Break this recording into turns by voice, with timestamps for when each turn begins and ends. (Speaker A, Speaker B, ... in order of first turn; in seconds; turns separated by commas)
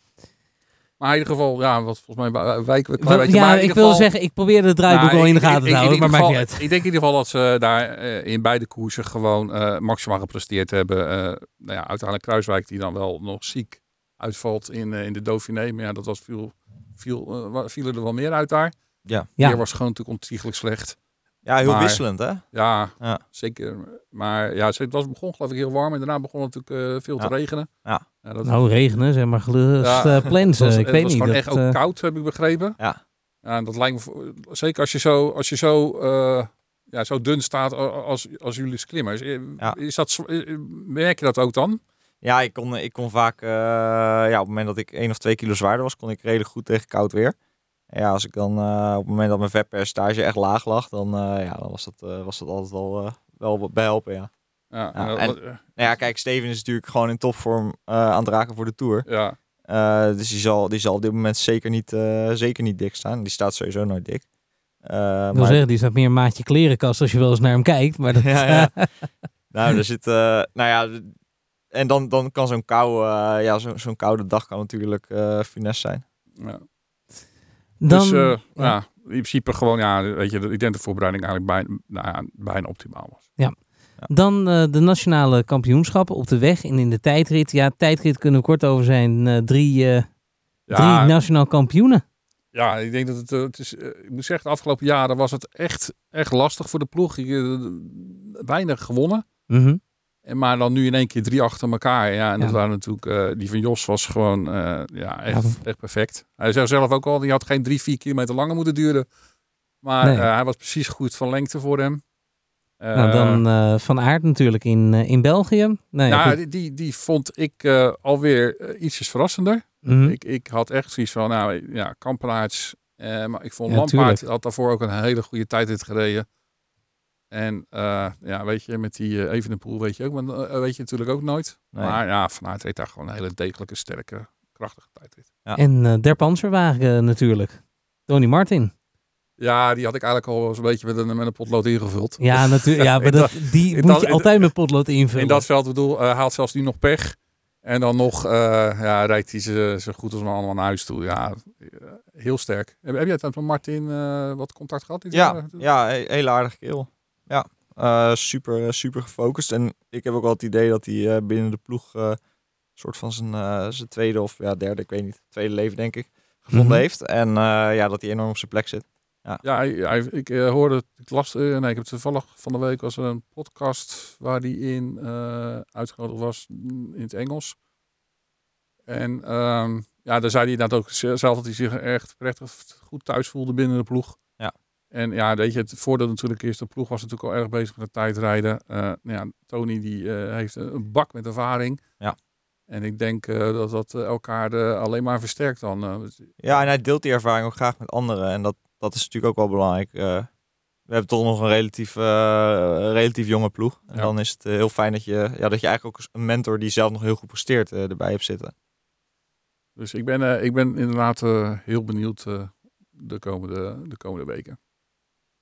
Speaker A: 1.0-4.1, Speaker B: 3.0-6.6, Speaker A: 4.9-18.7, Speaker A: 19.4-21.0, Speaker C: 21.4-22.5, Speaker A: 21.6-27.7, Speaker A: 28.2-28.6, Speaker B: 28.4-31.8, Speaker A: 29.8-32.8, Speaker A: 33.4-41.8, Speaker C: 42.2-47.4, Speaker C: 47.9-54.3, Speaker A: 54.7-55.9, Speaker C: 54.9-59.1, Speaker A: 59.0-59.4, Speaker C: 59.7-64.2, Speaker C: 64.8-65.6, Speaker B: 65.3-69.1, Speaker C: 68.2-68.9, Speaker C: 69.5-71.1, Speaker C: 71.7-76.0, Speaker A: 76.4-76.7, Speaker B: 77.8-78.8, Speaker A: 77.9-83.3, Speaker B: 83.4-90.1, Speaker A: 90.7-91.2, Speaker B: 90.7-92.0, Speaker A: 92.5-99.2, Speaker B: 99.5-99.8, Speaker A: 100.2-109.1, Speaker B: 105.3-105.6, Speaker A: 109.8-112.0, Speaker B: 110.0-110.3, Speaker A: 112.8-113.4, Speaker B: 112.9-116.4, Speaker A: 116.1-126.3, Speaker B: 119.8-120.2, Speaker B: 123.7-124.2, Speaker A: 127.3-135.3, Speaker B: 135.6-138.7, Speaker A: 139.4-144.6, Speaker B: 142.2-145.4, Speaker A: 145.1-155.6, Speaker C: 155.1-162.2, Speaker C: 162.8-169.4, Speaker B: 166.5-166.8, Speaker A: 169.4-177.6, Speaker A: 178.9-184.2, Speaker A: 184.9-191.8, Speaker A: 192.7-196.6, Speaker C: 196.4-200.3, Speaker C: 200.9-208.5, Speaker A: 209.8-214.6